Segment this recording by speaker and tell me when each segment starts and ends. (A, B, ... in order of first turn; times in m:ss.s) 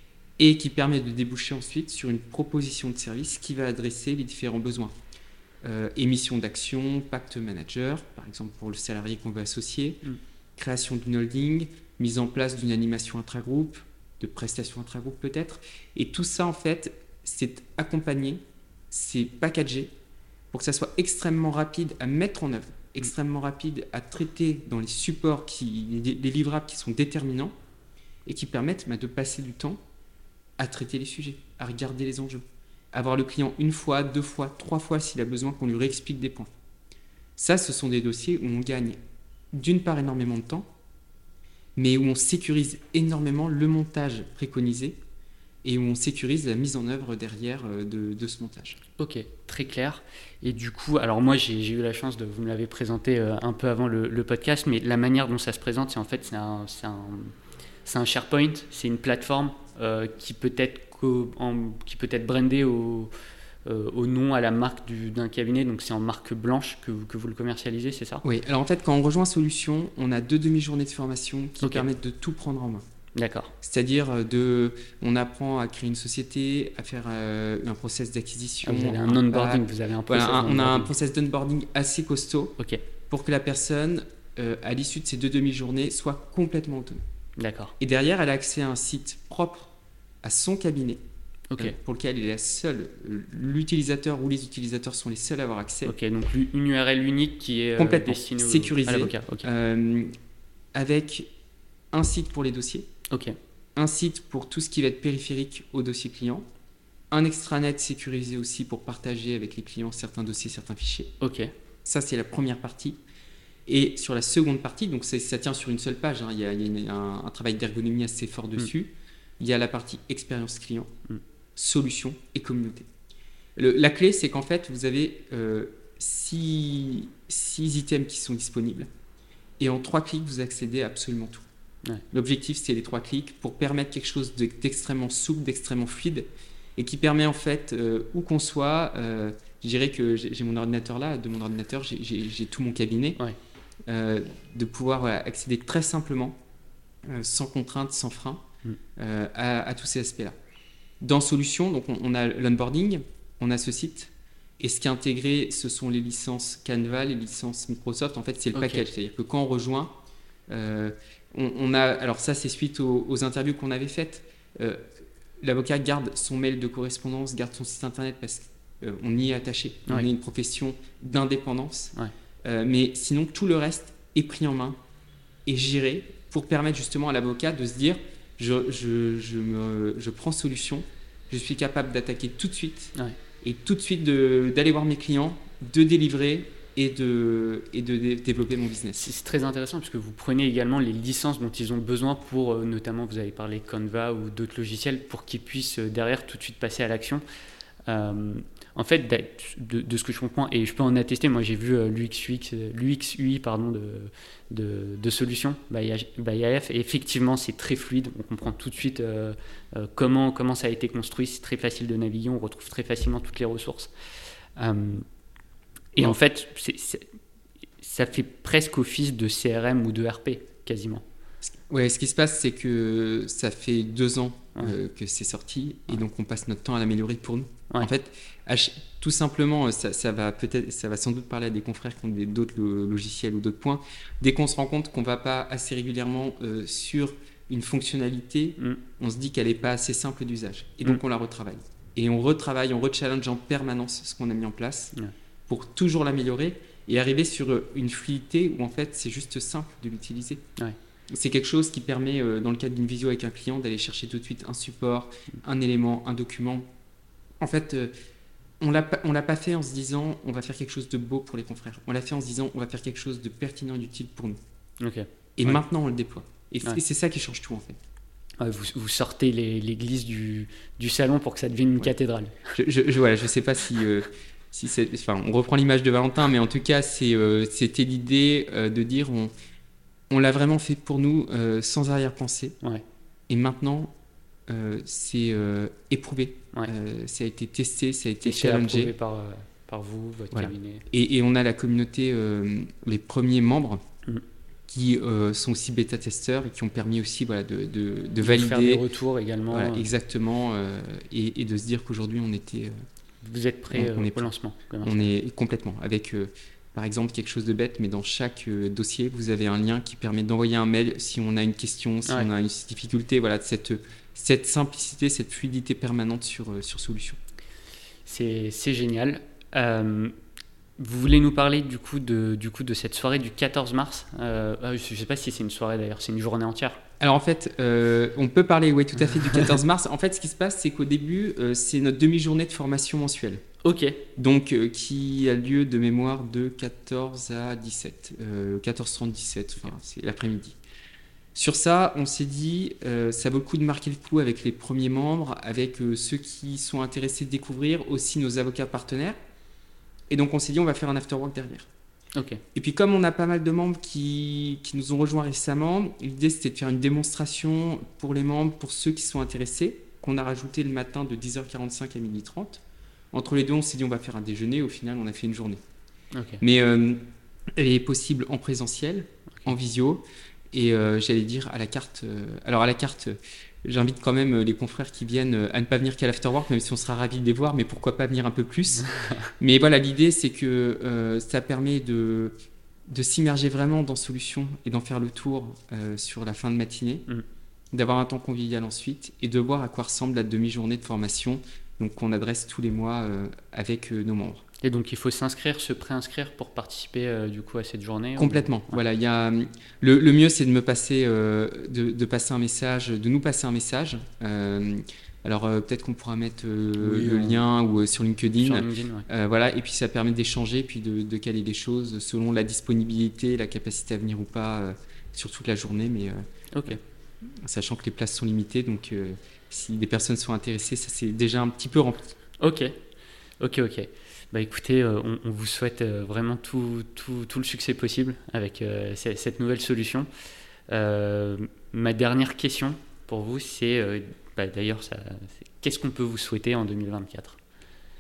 0:00.4-0:04.9 A
0:05.6-0:10.0 A
0:10.6-0:19.9 A
0:20.5-0:27.5 A
0:28.3-0:29.8 A
0:30.6-0:36.5 A
0:37.4-0:39.0 A
0:39.5-0:40.7 A
0:41.8-0:45.0 A
0:45.6-0:48.8 A
0:49.0-0:57.3 B
0:57.8-1:03.1 B
1:03.6-1:08.2 B
1:08.2-1:12.8 A
1:11.6-1:11.9 B
1:13.2-1:13.5 B
1:13.6-1:22.6 A
1:18.6-1:20.9 B
1:23.1-1:27.0 A
1:27.4-1:27.7 B
1:27.8-1:29.7 A
1:30.2-1:31.0 A
1:31.6-1:35.9 A
1:35.9-1:39.5 B
1:37.8-1:40.1 A
1:40.8-1:41.3 A
1:41.9-1:42.9 A
1:43.1-1:43.4 B
1:43.8-1:46.4 A
1:47.1-1:51.1 A
1:51.2-1:51.5 B
1:51.9-1:53.0 A
1:53.7-2:00.9 A
2:01.6-2:02.9 A
2:03.6-2:08.9 A
2:09.6-2:11.4 A
2:12.1-2:23.2 A
2:23.9-2:26.4 A
2:27.1-2:28.4 A
2:29.0-2:30.4 A
2:31.0-2:39.9 A
2:38.6-2:38.8 B
2:40.5-2:44.8 A
2:45.4-2:54.8 A
2:55.5-3:09.1 A
3:09.0-3:17.2 B
3:17.9-3:33.9 B
3:34.6-3:35.0 B
3:36.0-3:37.1 B
3:37.8-3:41.0 B
3:41.4-4:05.0 A
4:05.5-4:10.4 A
4:11.1-4:16.7 A
4:17.4-4:17.9 A
4:18.6-4:24.4 A
4:24.8-4:25.6 B
4:25.4-4:27.8 A
4:28.4-4:32.4 B
4:32.5-4:39.3 A
4:40.1-4:42.6 A
4:43.3-4:43.9 A
4:44.5-4:48.9 A
4:48.2-4:50.8 B
4:50.3-4:53.8 A
4:54.7-4:58.8 A
4:58.2-4:59.9 B
4:59.5-5:02.8 A
5:03.2-5:05.1 B
5:03.7-5:04.3 A
5:04.8-5:17.2 A
5:18.1-5:20.2 B
5:20.8-5:26.8 B
5:27.0-5:33.4 A
5:33.6-5:34.0 B
5:34.2-5:40.6 A
5:41.4-5:49.2 A
5:50.1-5:51.7 A
5:52.2-5:52.4 B
5:52.6-6:02.6 A
6:03.1-6:05.6 A
6:06.1-6:06.4 B
6:06.4-6:07.0 A
6:07.6-6:18.9 A
6:19.0-6:19.3 B
6:19.4-6:22.3 A
6:22.9-6:27.0 A
6:27.7-6:34.4 A
6:34.6-6:38.8 B
6:38.2-6:56.8 A
6:46.8-6:47.4 B
6:48.4-6:49.0 B
6:56.5-6:56.8 B
6:57.4-7:02.1 A
7:02.4-7:02.8 B
7:03.4-7:10.1 B
7:10.7-7:17.4 B